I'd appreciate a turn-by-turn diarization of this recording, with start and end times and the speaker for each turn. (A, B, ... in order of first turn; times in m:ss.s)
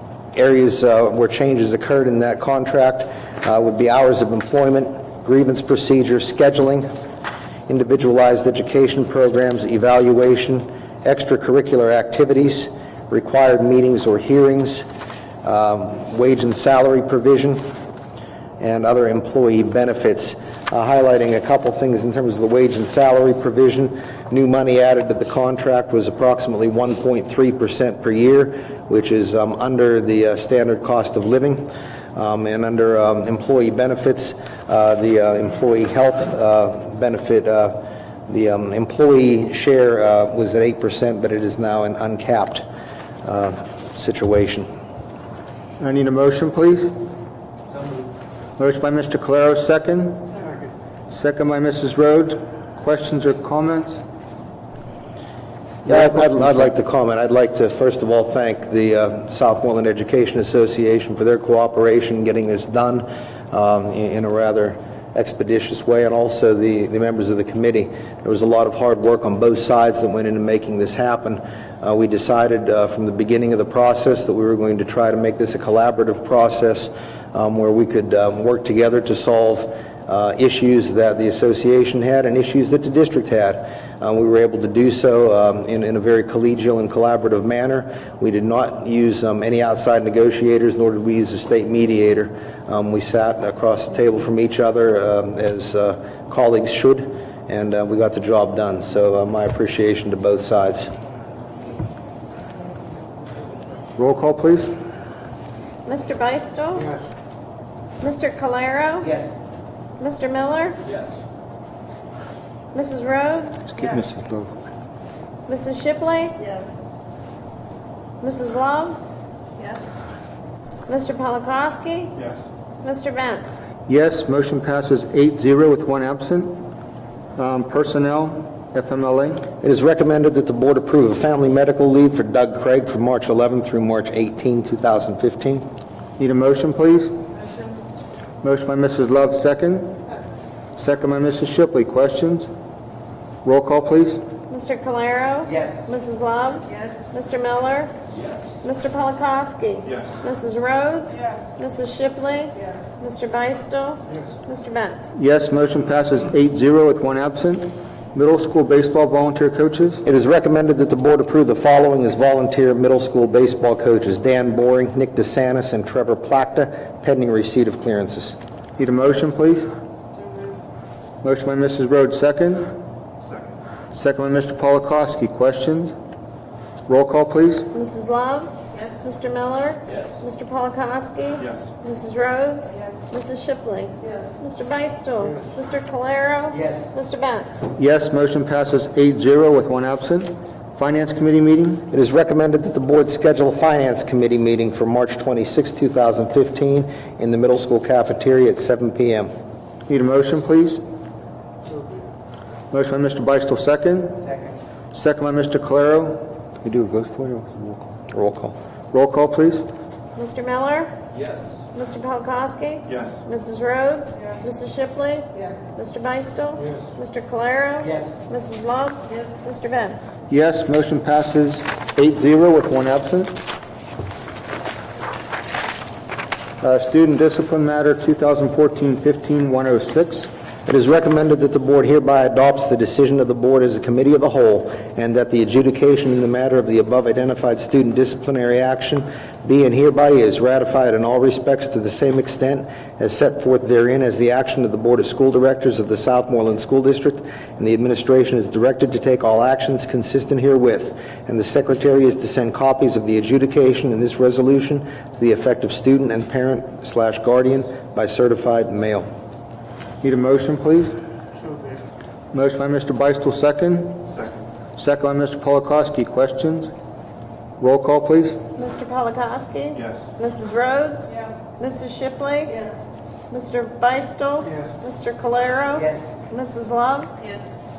0:00.4-0:06.9 A
0:07.7-0:14.9 A
0:15.4-0:17.7 A
0:18.6-0:42.6 A
0:43.2-0:44.7 A
0:45.8-0:46.9 B
0:48.6-0:50.5 B
0:51.1-0:54.0 B
0:55.9-0:56.7 B
0:55.9-1:40.9 A
1:44.0-1:44.7 B
1:45.9-1:47.0 C
1:48.0-1:49.2 C
1:50.0-1:50.8 C
1:52.7-1:53.7 C
1:53.7-1:54.5 B
1:55.5-1:56.5 C
1:58.2-1:59.0 C
2:00.9-2:03.6 C
2:03.9-2:06.7 B
2:07.4-2:09.5 B
2:09.6-2:15.6 A
2:16.2-2:17.2 B
2:18.4-2:20.0 B
2:20.8-2:22.5 B
2:23.4-2:24.2 B
2:24.5-2:27.9 C
2:28.6-2:35.1 C
2:35.1-2:40.0 B
2:40.0-2:48.4 A
2:48.8-2:49.7 B
2:51.2-2:52.8 B
2:53.9-2:56.0 B
2:56.9-2:57.7 B
2:57.7-3:07.7 C
3:07.8-3:11.9 B
3:11.9-3:19.3 A
3:19.9-3:20.8 B
3:22.7-3:24.3 B
3:24.9-3:27.9 B
3:28.1-3:28.6 A
3:28.9-3:29.7 B
3:30.2-3:30.9 C
3:31.7-3:40.1 C
3:40.3-3:43.4 B
3:46.6-3:50.3 B
3:50.7-4:19.1 A
4:20.0-4:21.0 B
4:22.3-4:24.2 B
4:24.8-4:26.7 B
4:27.6-4:28.4 B
4:28.6-4:32.7 C
4:33.3-4:37.2 C